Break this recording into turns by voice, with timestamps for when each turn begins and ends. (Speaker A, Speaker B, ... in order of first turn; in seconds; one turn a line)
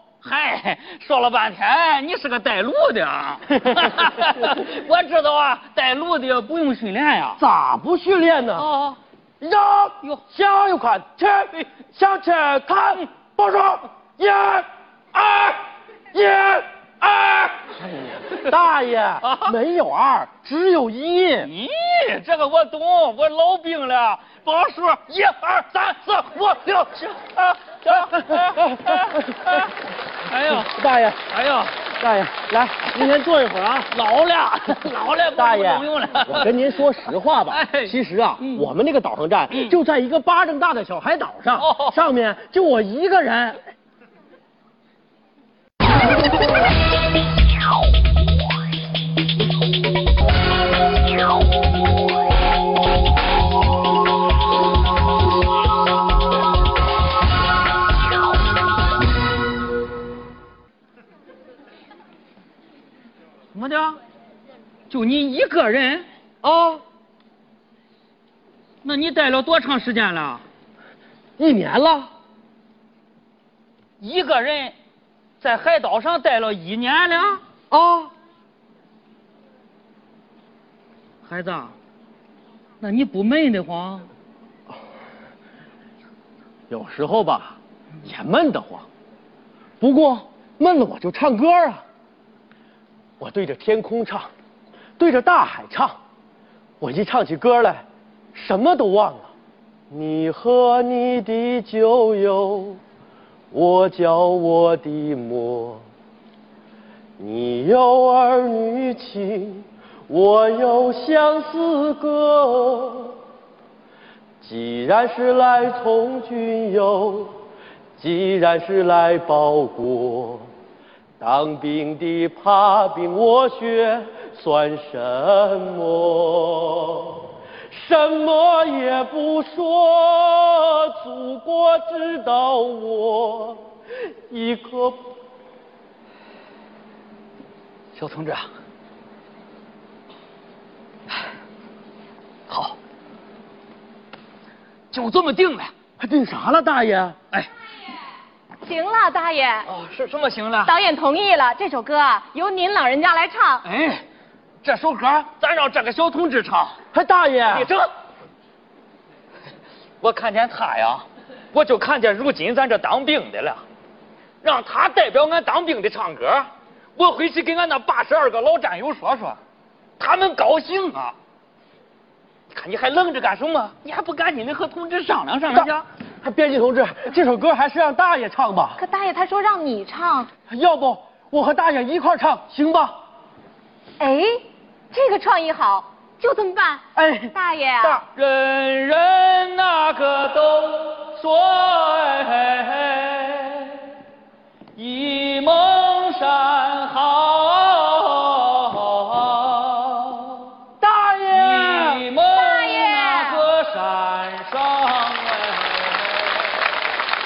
Speaker A: 0.2-7.4
Speaker B: 7.4-8.7
Speaker A: 8.6-9.0
Speaker B: 9.4-21.5
Speaker A: 19.2-19.6
Speaker A: 21.4-29.7
Speaker B: 28.1-29.7
Speaker A: 30.3-31.9
Speaker B: 30.5-31.2
Speaker B: 31.9-33.9
Speaker A: 33.9-36.9
Speaker B: 35.4-43.6
Speaker A: 37.5-38.7
Speaker A: 41.6-42.0
Speaker A: 63.5-64.0
Speaker A: 64.9-66.1
Speaker B: 66.4-66.8
Speaker A: 68.8-70.4
Speaker B: 71.4-72.1
Speaker A: 74.0-74.7
Speaker A: 75.4-77.4
Speaker B: 77.7-78.1
Speaker A: 81.2-81.8
Speaker A: 82.8-84.1
Speaker B: 86.7-88.9
Speaker B: 89.8-91.8
Speaker B: 93.2-94.3
Speaker B: 95.0-96.0
Speaker B: 96.8-99.3
Speaker B: 99.9-102.8
Speaker B: 103.5-105.8
Speaker B: 107.2-113.2
Speaker B: 114.4-117.4
Speaker B: 118.0-120.5
Speaker B: 121.2-133.7
Speaker B: 134.3-135.1
Speaker A: 138.0-138.5
Speaker A: 142.5-142.8
Speaker A: 144.9-145.7
Speaker B: 146.0-147.2
Speaker C: 148.6-149.7
Speaker A: 149.7-150.7
Speaker C: 150.6-153.7
Speaker A: 153.6-154.0
Speaker A: 154.6-156.8
Speaker B: 156.9-157.7
Speaker A: 157.5-157.9
Speaker A: 160.0-163.6
Speaker A: 164.4-169.4
Speaker A: 170.0-171.2
Speaker A: 172.5-175.9
Speaker B: 175.5-178.8
Speaker C: 178.8-180.3
Speaker B: 180.5-183.0
Speaker C: 184.0-188.0
Speaker B: 186.9-188.0
Speaker A: 188.2-193.9
Speaker A: 194.8-200.6
Speaker B: 200.8-202.1
Speaker A: 201.3-206.7
Speaker C: 202.3-203.4